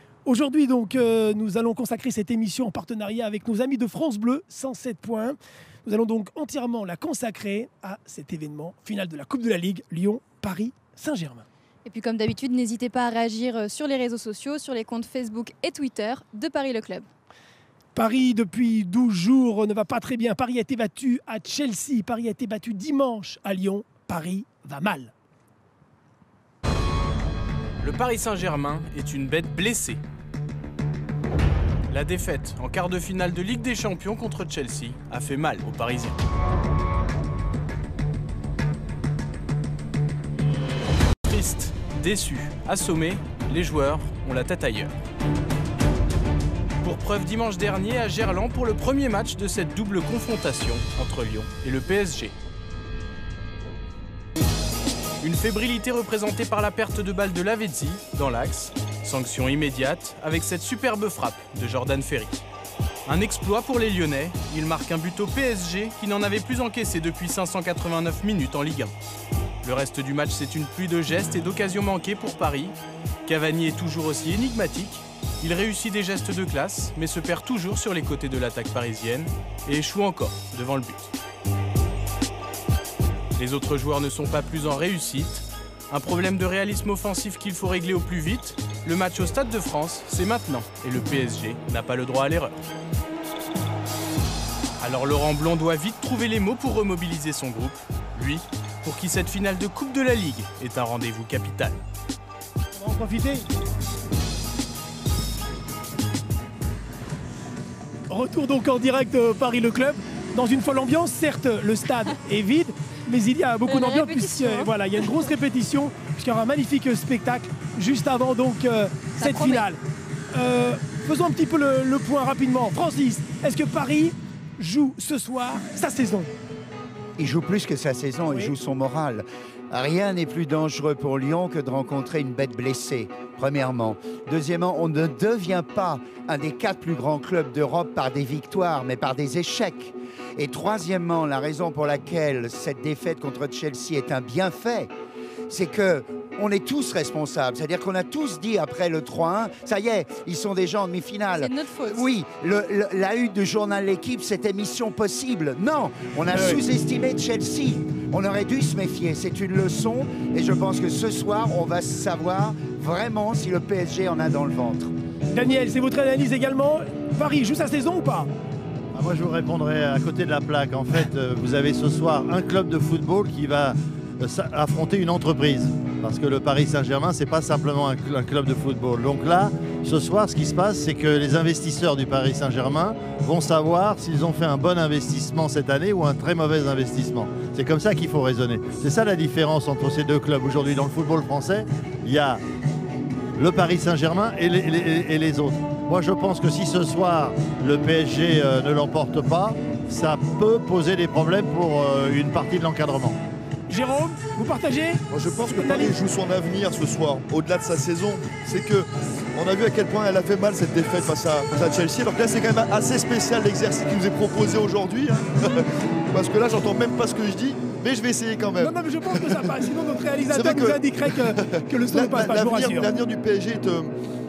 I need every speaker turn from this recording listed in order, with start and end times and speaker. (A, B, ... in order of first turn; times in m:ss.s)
0:00.2-0:11.4 A
0:11.8-0:17.1 B
0:17.9-0:25.1 A
0:27.8-0:30.0 C
0:31.9-0:36.2 C
0:41.2-0:44.9 C
0:46.8-0:52.3 C
0:55.2-1:02.4 C
1:03.0-1:08.9 C
1:09.6-1:12.7 C
1:13.2-1:21.1 C
1:23.4-1:32.6 C
1:34.8-1:41.8 C
1:42.7-1:43.4 A
1:48.1-1:59.8 A
1:53.7-1:54.7 B
1:59.2-1:59.7 B
2:00.3-2:06.3 A
2:07.2-2:24.9 D
2:08.3-2:08.5 A
2:25.5-2:44.9 D
2:31.3-2:32.1 B
2:36.3-2:36.6 A
2:45.3-2:48.3 A
2:48.9-3:12.4 E
3:13.4-3:23.2 E
3:23.7-3:26.0 A
3:25.1-3:39.6 F
3:38.6-3:42.9 A
3:40.3-3:43.9 F